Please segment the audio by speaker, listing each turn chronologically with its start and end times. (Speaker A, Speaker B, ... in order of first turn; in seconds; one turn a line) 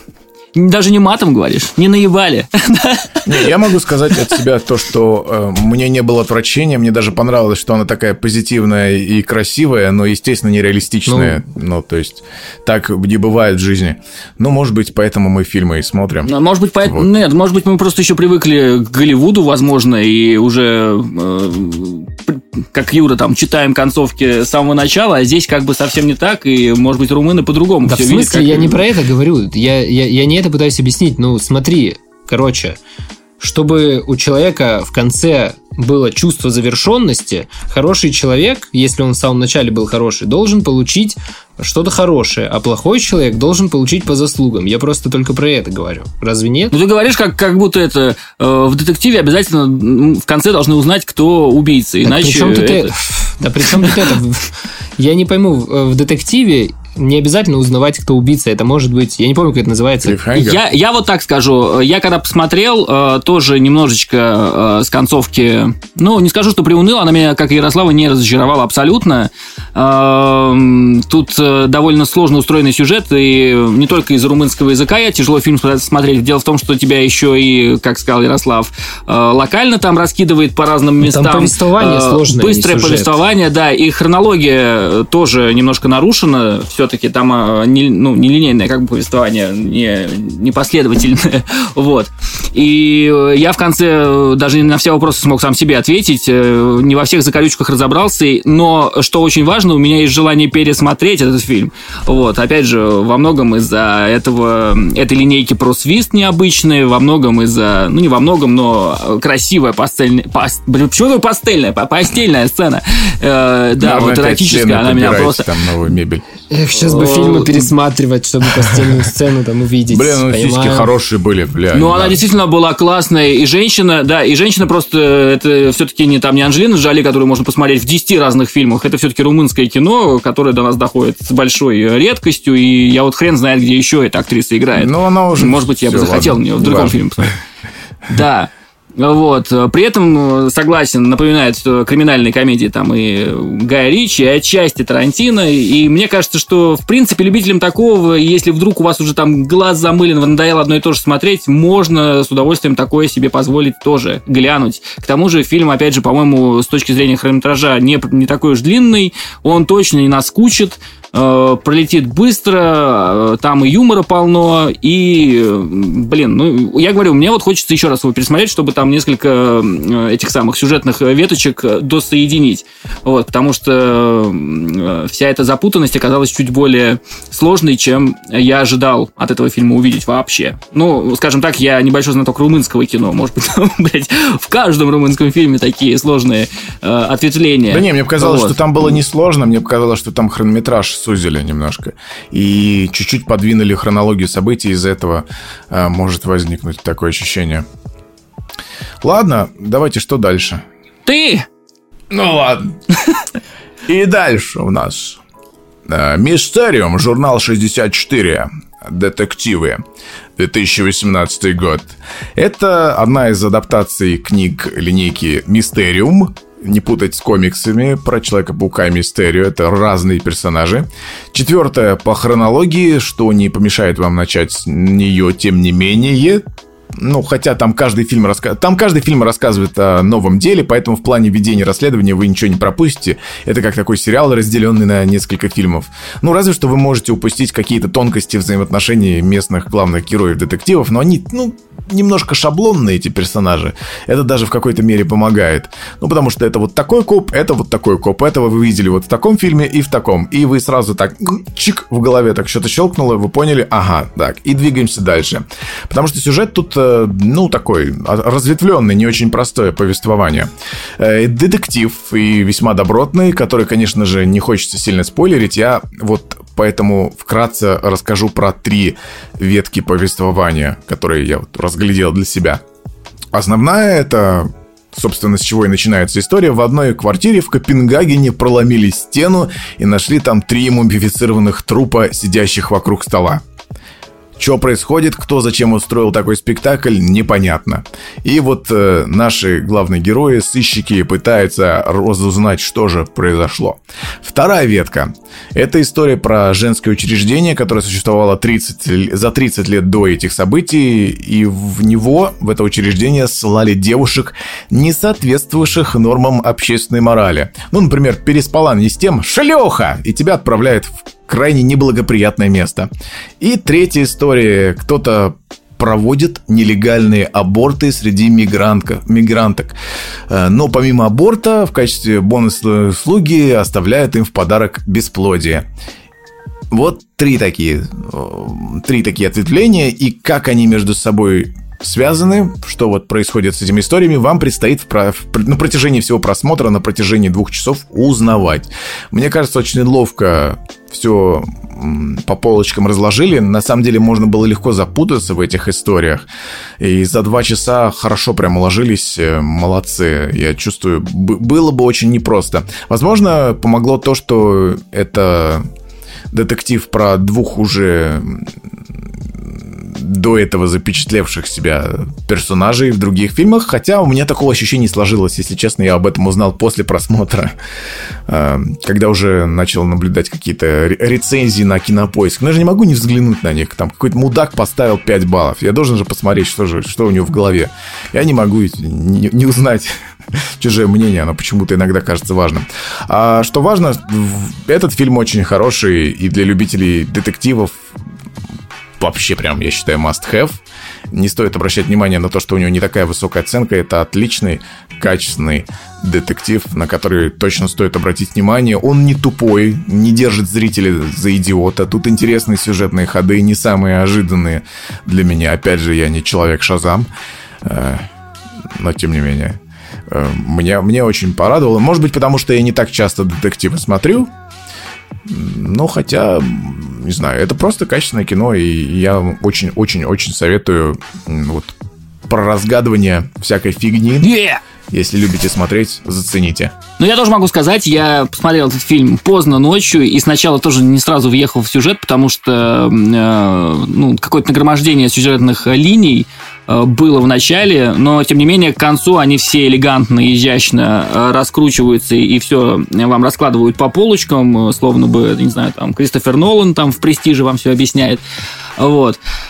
Speaker A: 0.5-3.5
Speaker B: 3.2-17.1
Speaker C: 11.1-11.4
Speaker A: 16.2-28.8
Speaker C: 27.9-32.8
Speaker C: 33.4-46.7
Speaker A: 46.7-52.9
Speaker C: 52.0-60.2
Speaker A: 53.7-54.0
Speaker B: 60.0-60.6
Speaker A: 60.3-115.5
Speaker C: 81.0-83.2
Speaker B: 113.8-116.2
Speaker C: 116.5-120.9
Speaker A: 116.8-117.7
Speaker B: 119.9-122.2
Speaker A: 121.7-137.3
Speaker B: 134.8-137.0
Speaker A: 138.1-188.8
Speaker B: 187.7-197.7
Speaker B: 199.0-200.6
Speaker A: 201.1-201.4
Speaker B: 202.1-202.7
Speaker B: 203.9-205.2
Speaker B: 205.9-209.8
Speaker B: 210.4-226.4
Speaker B: 227.0-272.6
Speaker B: 273.3-283.4
Speaker B: 284.4-312.9
Speaker B: 313.4-319.7
Speaker B: 320.3-325.6
Speaker B: 326.7-346.2
Speaker B: 346.8-355.6
Speaker B: 356.3-358.5
Speaker B: 359.4-367.5
Speaker B: 368.3-387.9
Speaker B: 389.0-390.6
Speaker B: 391.1-407.1
Speaker B: 407.6-408.1
Speaker B: 408.7-409.6
Speaker B: 410.1-414.3
Speaker B: 415.2-421.7
Speaker B: 422.3-424.3
Speaker A: 424.2-424.6
Speaker B: 424.9-426.7
Speaker A: 427.0-448.2
Speaker A: 448.8-449.2